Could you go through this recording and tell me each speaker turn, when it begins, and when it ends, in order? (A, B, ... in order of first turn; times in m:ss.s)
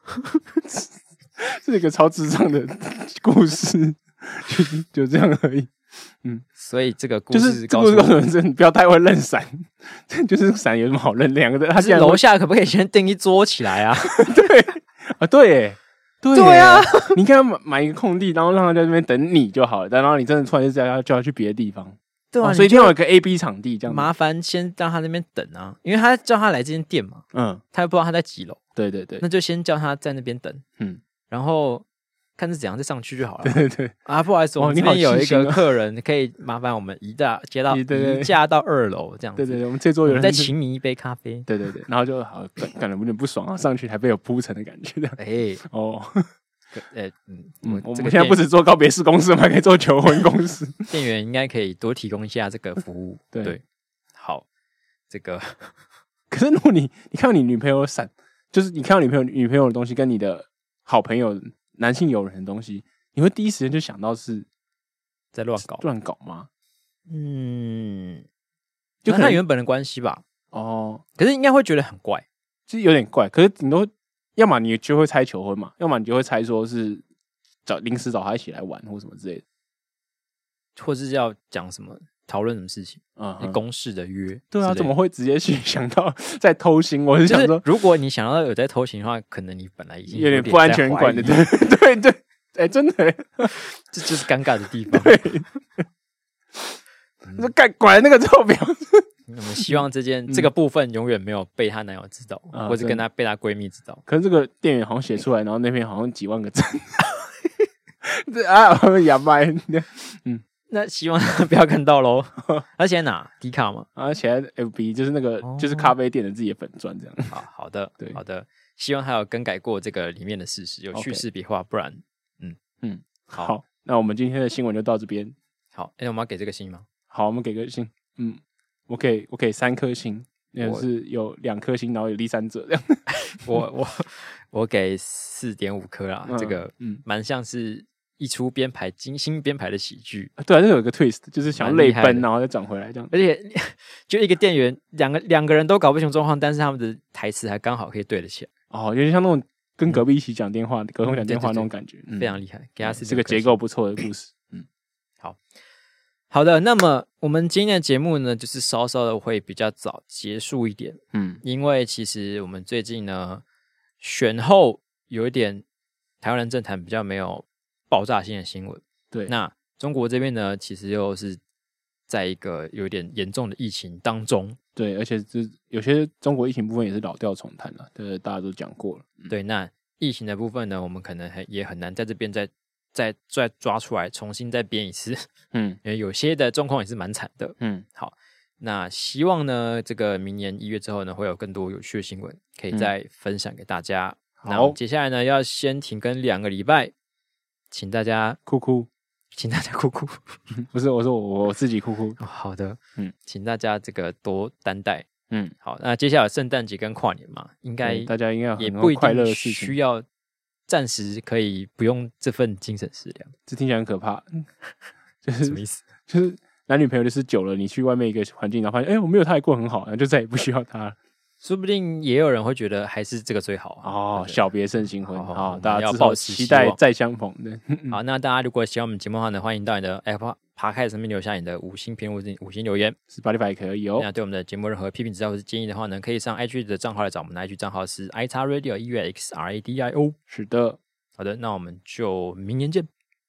0:00.6-0:05.7 A
0:06.6-0:08.2 B
0:07.3-0:12.2 A
0:11.8-0:14.4 B
0:14.1-0:24.1 A
0:16.3-0:17.2 B
0:22.3-0:22.9 B
0:23.8-0:28.6 B
0:27.3-0:27.6 A
0:28.8-0:29.2 A
0:29.2-0:30.6 B
0:31.3-0:31.8 B
0:32.4-0:41.5 B
0:33.4-0:33.9 A
0:34.6-0:35.6 A
0:37.7-0:38.3 A
0:39.4-0:40.5 A
0:41.5-0:46.3 A
0:45.2-0:45.6 B
0:46.7-0:48.4 B
0:47.6-0:50.9 A
0:50.9-0:53.6 B
0:53.3-0:53.6 A
0:54.2-0:54.4 B
0:55.1-0:55.7 B
0:56.3-1:04.5 A
1:05.3-1:05.8 B
1:05.6-1:06.5 A
1:07.1-1:08.2 B
1:09.0-1:09.4 A
1:09.1-1:10.2 B
1:10.5-1:11.0 A
1:11.2-1:12.2 B
1:12.7-1:17.0 A
1:17.6-1:19.4 A
1:20.8-1:24.9 B
1:23.2-1:23.6 A
1:24.5-1:27.6 A
1:27.2-1:31.4 B
1:30.1-1:33.5 A
1:33.5-1:35.2 B
1:34.9-1:35.8 A
1:37.3-1:39.0 A
1:39.3-1:44.0 B
1:42.5-1:43.0 A
1:44.1-1:47.1 A
1:48.0-1:50.4 A
1:50.7-1:53.9 B
1:54.0-1:57.3 A
1:55.4-1:55.9 B
1:57.3-2:02.6 B
2:00.9-2:01.2 A
2:02.8-2:05.3 A
2:05.7-2:06.8 B
2:07.1-2:13.5 A
2:13.1-2:20.3 B
2:16.3-2:17.0 A
2:20.4-2:23.1 A
2:21.6-2:22.3 B
2:23.1-2:28.5 B
2:28.7-2:34.6 A
2:31.0-2:33.6 B
2:36.3-2:43.4 B
2:41.1-2:41.4 A
2:44.0-2:45.6 B
2:46.2-2:51.4 B
2:52.1-2:54.6 B
2:54.8-2:59.3 A
2:59.3-3:05.3 B
3:05.5-3:05.8 A
3:05.8-3:16.9 B
3:07.6-3:07.8 A
3:14.4-3:14.8 A
3:17.7-3:18.4 B
3:18.4-3:18.9 A
3:19.3-3:20.4 B
3:20.6-3:22.2 A
3:22.2-3:25.1 B
3:25.6-3:30.0 B
3:27.8-3:29.8 A
3:30.7-3:33.3 B
3:33.5-3:34.5 A
3:35.2-3:41.0 A
3:35.4-3:35.8 B
3:41.4-3:44.5 B
3:43.8-3:48.0 A
3:45.0-3:46.8 B
3:47.9-3:53.0 B
3:53.1-3:54.1 A
3:54.0-4:00.2 B
4:00.3-4:00.8 A
4:01.2-4:02.9 B